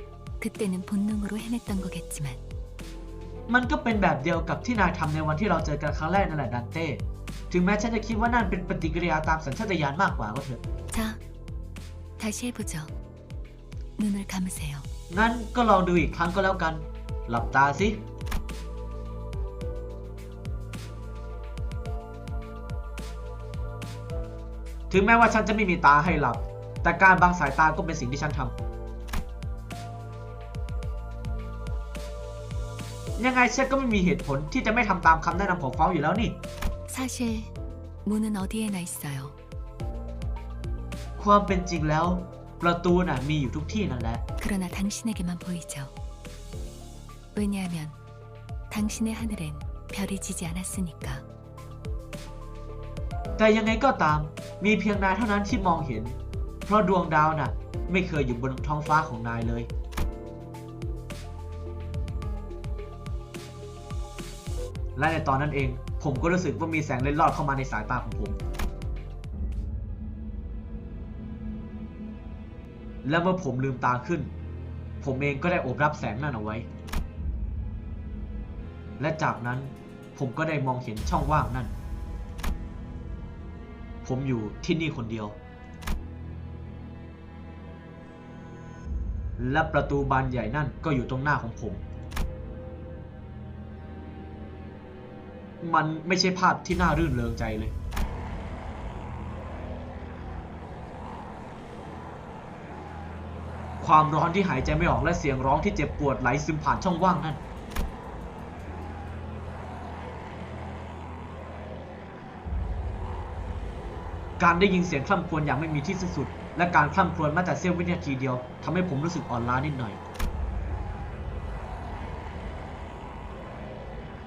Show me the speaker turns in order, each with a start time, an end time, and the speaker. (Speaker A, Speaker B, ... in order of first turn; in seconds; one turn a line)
Speaker A: 0.4-2.4
Speaker B: 3.5-10.6
Speaker A: 10.9-11.2
Speaker A: 12.2-12.9
Speaker A: 14.0-14.9
Speaker B: 15.1-18.0
Speaker B: 24.9-28.6
Speaker B: 33.2-36.4
Speaker A: 36.9-37.5
Speaker A: 38.0-39.4
Speaker B: 41.2-44.2
Speaker A: 44.4-45.9
Speaker A: 47.3-48.0
Speaker A: 48.7-51.2
Speaker B: 53.4-59.7
Speaker B: 65.0-68.4
Speaker B: 73.0-74.3
Speaker B: 75.0-76.7
Speaker B: 79.0-81.7
Speaker B: 84.0-85.4
Speaker B: 89.4-91.8
Speaker B: 95.6-97.8
Speaker B: 103.8-107.4
Speaker B: 114.4-120.0